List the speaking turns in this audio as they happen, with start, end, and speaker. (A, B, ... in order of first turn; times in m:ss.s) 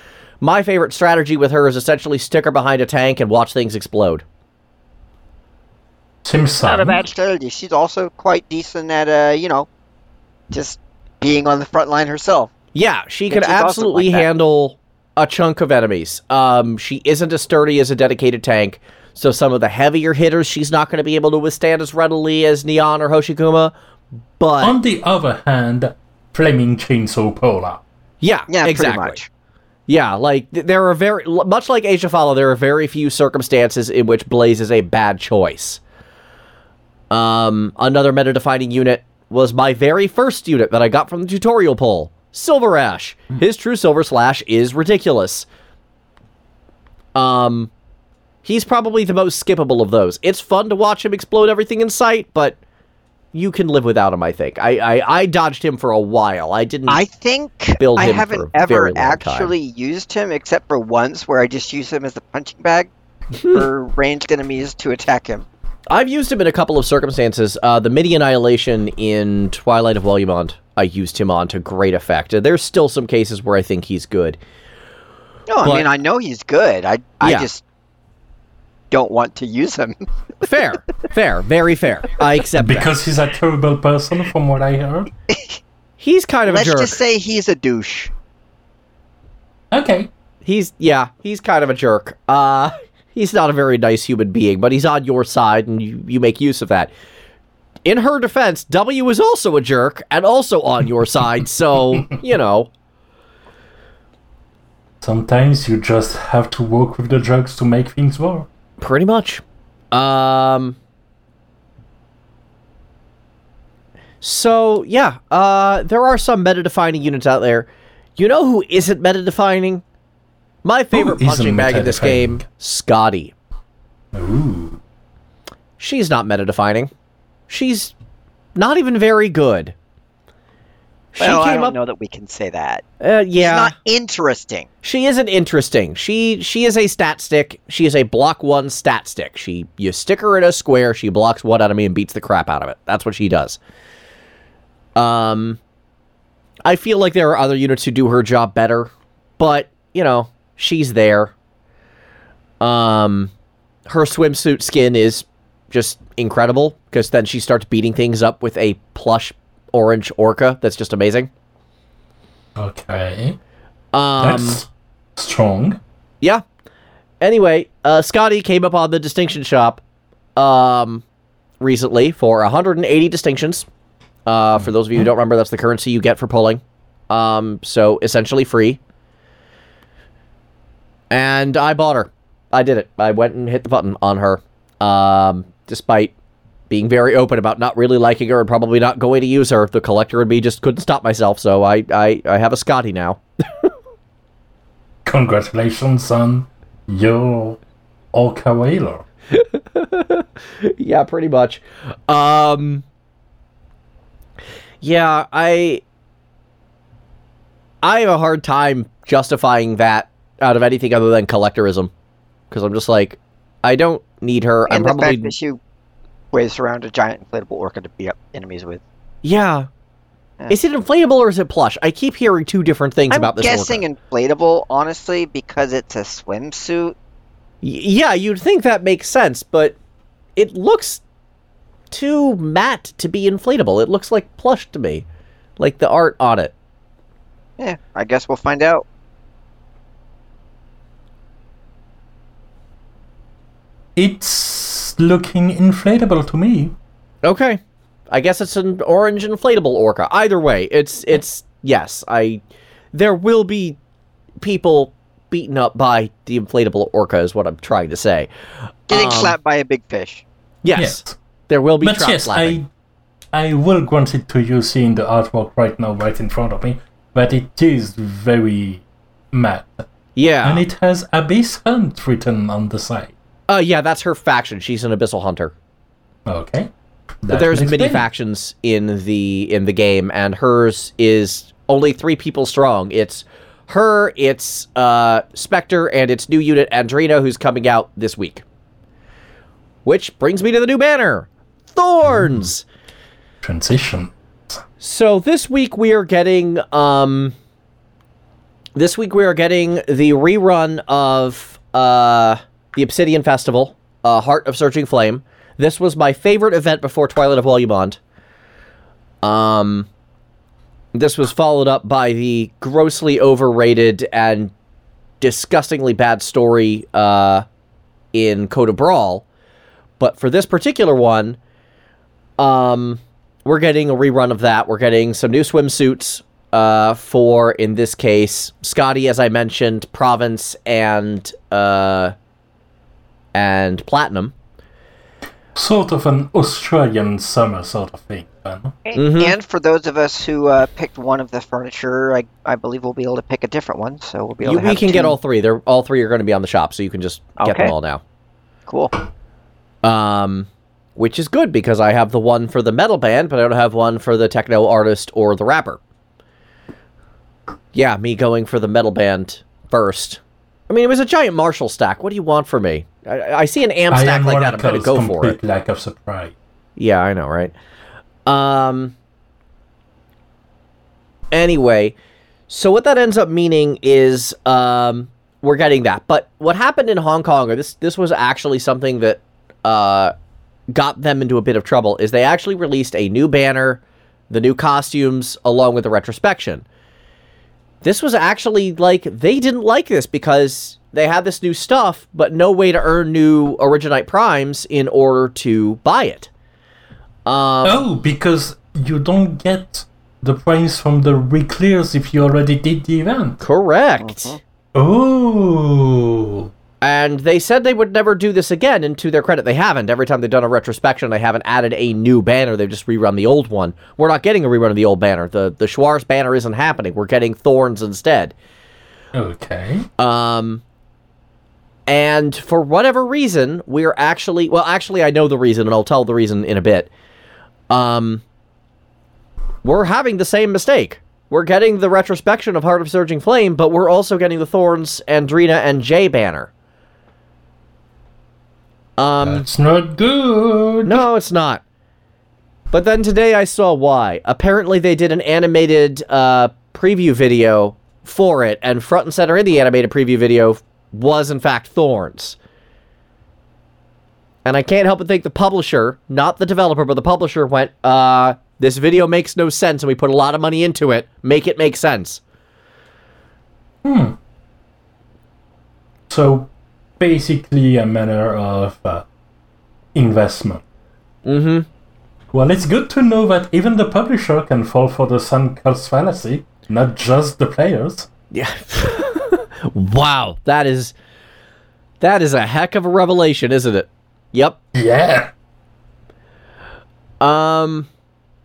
0:00.4-0:04.2 A
0:06.2-0:07.0 B
0:06.6-0:09.7 C
0:10.5-0:12.5 C
0:12.7-0:23.7 A
0:13.3-0:14.3 C
0:24.4-0:24.8 A
0:24.6-0:27.8 B
0:28.2-0:29.2 A
0:28.5-0:29.3 C
0:29.9-0:35.8 A
0:37.1-0:45.5 A
0:47.1-0:47.7 A
0:48.4-0:52.6 A
0:53.3-0:57.0 A
0:56.9-1:02.9 C
0:57.8-0:59.5 A
1:03.4-1:03.7 A
1:03.4-1:05.4 C
1:05.9-1:14.4 A
1:15.5-1:17.6 C
1:15.6-1:15.9 A
1:17.2-1:17.5 A
1:18.9-1:20.0 C
1:20.4-1:22.9 A
1:22.6-1:25.1 B
1:25.3-1:25.6 C
1:26.0-1:27.0 A
1:26.5-1:28.1 C
1:29.7-1:30.1 B
1:30.4-1:36.9 A
1:37.8-1:42.7 A
1:45.0-1:48.5 B
1:48.8-1:50.8 A
1:54.2-1:59.8 A
2:00.6-2:03.3 A
2:00.9-2:02.4 B
2:04.1-2:04.8 B
2:05.8-2:06.9 A
2:07.5-2:07.9 A
2:08.5-2:09.7 A
2:11.1-2:11.7 A
2:11.2-2:12.8 C
2:13.0-2:13.7 A
2:13.4-2:14.7 C
2:14.8-2:23.6 A
2:25.0-2:25.6 A
2:26.6-2:31.3 A
2:32.6-2:33.3 A
2:33.9-2:41.3 A
2:42.6-2:43.4 B
2:43.9-2:44.6 A
2:44.2-2:45.8 B
2:47.2-2:49.8 A
2:50.4-2:51.0 A
2:51.6-2:53.7 A
2:54.2-2:58.8 A
3:01.1-3:06.1 A
3:06.7-3:13.7 A
3:15.0-3:17.6 B
3:18.1-3:19.0 B
3:19.3-3:22.8 A
3:24.8-3:25.8 A
3:27.8-3:31.9 A
3:32.5-3:35.3 A
3:34.7-3:35.6 C
3:36.3-3:38.8 C
3:39.2-3:39.7 A
3:40.5-3:43.8 A
3:43.1-3:46.9 C
3:47.6-3:49.8 A
3:50.4-3:51.0 A
3:51.9-3:55.0 A
3:55.6-3:56.5 A
3:57.6-3:58.8 C
4:04.0-4:06.7 B
4:07.2-4:12.4 A
4:12.9-4:13.8 A
4:14.4-4:18.3 A
4:18.9-4:19.4 A
4:18.9-4:20.2 C
4:20.6-4:22.6 A
4:20.7-4:21.2 B
4:21.8-4:22.7 B
4:23.3-4:29.9 B
4:30.2-4:30.6 A
4:30.4-4:33.1 B
4:33.5-4:35.5 A
4:36.3-4:36.7 B
4:37.2-4:38.0 B
4:37.3-4:48.4 A
4:49.8-4:52.6 A
4:53.4-4:54.6 B
4:54.8-4:57.3 A
4:58.7-5:08.0 A
5:09.2-5:09.9 A
5:10.9-5:14.5 A
5:15.2-5:17.4 A
5:18.1-5:19.2 A
5:20.0-5:21.4 A
5:22.4-5:32.1 A
5:33.3-5:34.3 A
5:35.5-5:38.8 B
5:38.9-5:45.2 C
5:39.0-5:39.3 A
5:44.4-5:48.0 A
5:47.4-5:47.7 C
5:48.7-5:48.9 C
5:49.8-5:55.8 A
5:57.7-6:05.4 A
6:03.9-6:06.3 B
6:06.8-6:07.5 A
6:08.2-6:08.9 A
6:11.3-6:11.9 A
6:12.5-6:20.1 A
6:20.7-6:26.6 A
6:27.8-6:36.3 A
6:37.2-6:37.8 A
6:37.6-6:43.4 B
6:43.4-6:44.3 A
6:44.0-6:44.4 C
6:44.7-6:46.5 B
6:46.8-6:58.3 A
6:59.1-6:59.9 B
7:00.0-7:00.6 A
7:01.9-7:06.9 A
7:07.7-7:08.2 A
7:09.6-7:16.5 A
7:19.0-7:19.4 A
7:19.2-7:21.0 B
7:20.8-7:21.6 A
7:22.7-7:32.4 A
7:34.4-7:42.2 A
7:43.8-7:44.2 B
7:46.1-7:49.0 B
7:49.9-7:50.6 B
7:51.2-7:51.7 A
7:52.3-7:58.1 B
7:58.3-8:00.9 A
8:02.0-8:04.6 A
8:04.7-8:05.3 B
8:07.2-8:07.9 A